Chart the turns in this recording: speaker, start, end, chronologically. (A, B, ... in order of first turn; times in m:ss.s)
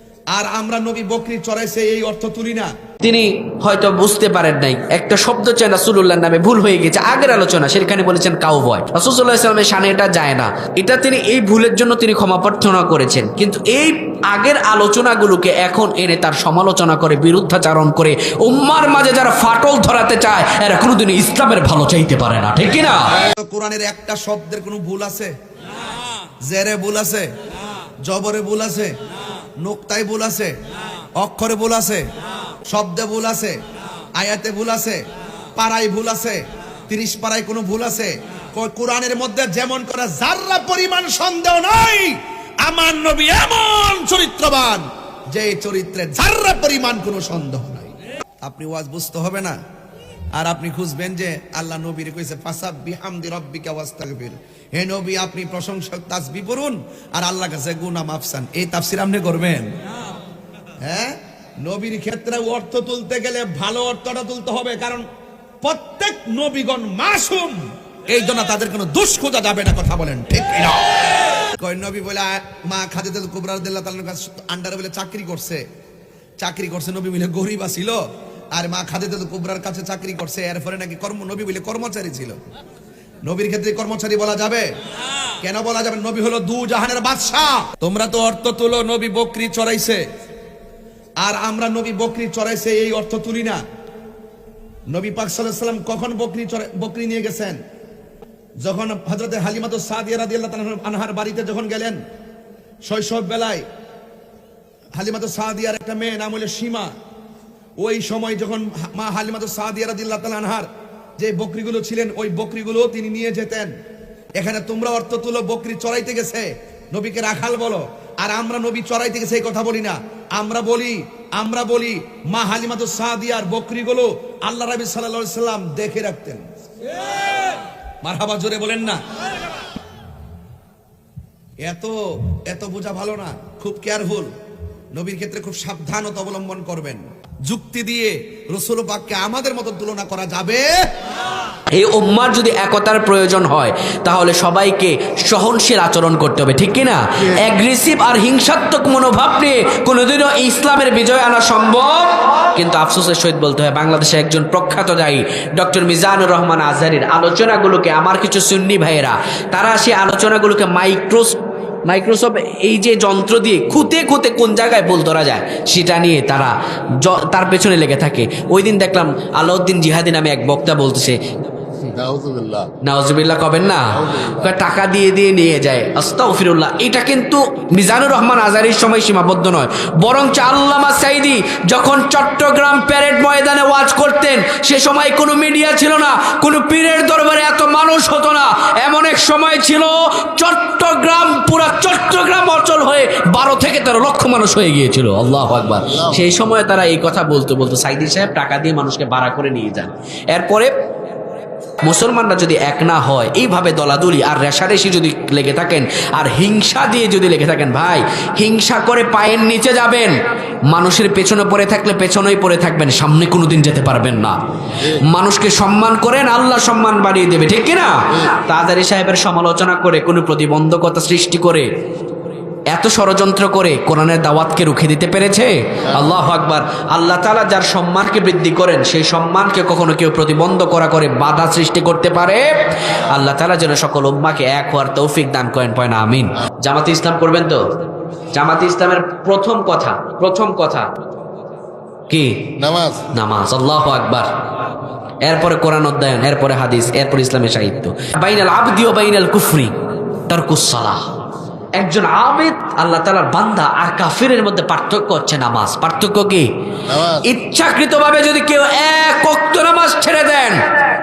0:00.3-0:02.7 A
0:03.0-0:23.1 B
0:23.2-0:25.3 A
0:26.5-0:27.2 A
0:28.0-0:28.9 A
0:29.6-0:30.5 A
0:31.2-0:32.0 A
0:32.7-0:33.6 A
0:34.2-0:35.0 A
0:35.6-0:49.6 A
0:50.3-0:59.7 A
1:00.8-1:05.0 A
1:05.6-1:15.6 A
1:16.4-1:18.0 A
1:18.5-1:22.4 A
1:23.2-1:24.7 A
1:25.4-1:30.0 A
1:31.2-1:33.6 A
1:34.9-1:37.6 A
1:38.6-1:42.0 A
1:42.8-1:43.6 A
1:45.0-1:46.9 A
1:47.8-1:53.7 A
1:54.4-2:06.4 A
2:08.0-2:09.0 A
2:11.6-2:14.3 A
2:14.9-2:20.7 A
2:21.7-2:51.2 B
2:51.8-2:52.7 C
2:52.8-3:20.7 B
2:54.0-2:54.4 C
3:15.9-3:16.2 C
3:21.8-3:30.2 B
3:30.7-3:41.7 B
3:42.7-3:57.6 B
3:58.3-4:00.9 B
4:02.1-4:02.5 B
4:02.6-4:03.1 C
4:03.1-4:04.3 B
4:05.2-4:11.1 B
4:11.8-4:16.5 B
4:16.9-4:17.2 C
4:17.1-4:20.8 B